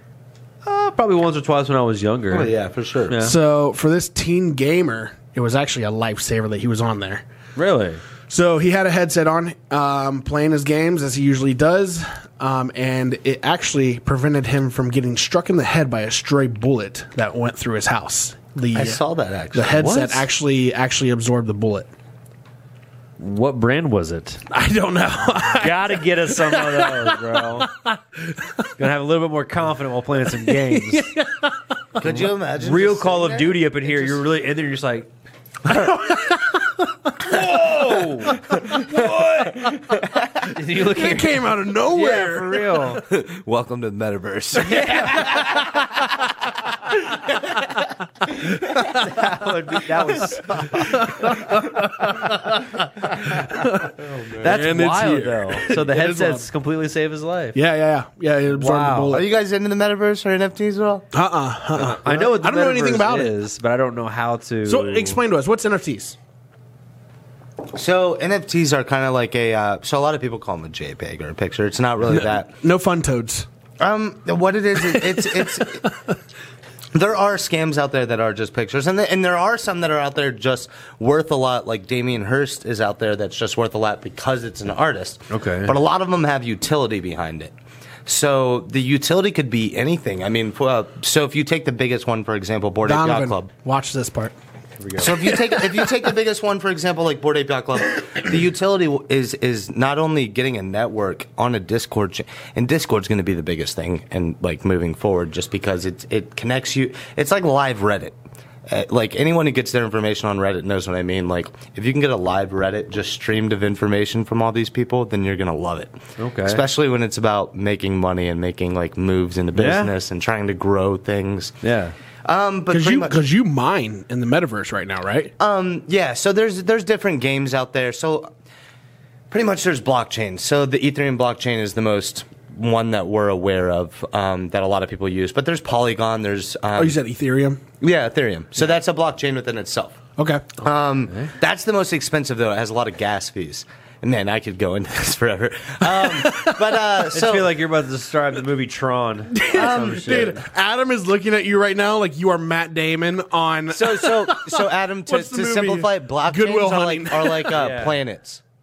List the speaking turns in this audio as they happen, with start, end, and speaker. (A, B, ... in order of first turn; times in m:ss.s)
0:00.6-0:02.5 A
0:02.3-0:03.2 B
0:03.1-0:03.4 A
0:03.2-0:07.2 C
0:07.6-0:08.0 A
0:08.3-0:19.0 C
0:18.7-0:20.0 B
0:19.5-0:21.9 C
0:19.8-0:20.2 A
0:23.2-0:24.4 A
0:24.5-0:28.7 C
0:25.5-0:27.7 A
0:28.8-0:31.1 A
0:30.4-0:31.6 C
0:32.0-0:34.2 B
0:32.1-0:35.1 A
0:35.7-0:37.4 C
0:37.2-0:39.6 A
0:38.3-0:39.0 C
0:38.5-0:40.5 B
0:40.5-0:43.0 A
0:40.8-0:42.9 C
0:43.0-0:45.9 B
0:44.7-0:45.4 A
0:45.2-0:45.6 C
0:48.5-0:49.0 B
0:48.9-0:51.3 A
0:50.2-0:51.1 B
0:50.8-0:56.5 C
0:54.0-0:54.6 B
0:54.4-0:57.6 A
0:57.6-0:59.2 C
0:58.5-0:59.2 A
0:59.1-1:01.1 B
1:01.1-1:03.3 C
1:01.8-1:05.2 A
1:04.7-1:06.2 C
1:07.7-1:12.5 B
1:12.1-1:13.5 C
1:13.8-1:15.9 B
1:14.8-1:16.0 C
1:16.9-1:27.5 B
1:25.3-1:25.7 A
1:28.1-1:33.5 B
1:32.8-1:34.4 C
1:34.8-1:35.3 A
1:35.0-1:48.2 B
1:48.7-2:01.6 B
1:56.2-1:56.6 A
1:59.6-1:59.9 A
2:01.6-2:02.0 A
2:02.3-2:03.2 B
2:02.7-2:05.3 C
2:05.4-2:08.3 B
2:09.3-2:17.0 B
2:16.8-2:17.6 C
2:17.8-2:20.0 B
2:20.2-2:20.5 C
2:20.6-2:27.5 B
2:26.0-2:26.6 C
2:27.1-2:30.4 A
2:29.3-2:37.6 C
2:29.6-2:30.4 B
2:33.7-2:38.4 B
2:37.6-2:38.0 A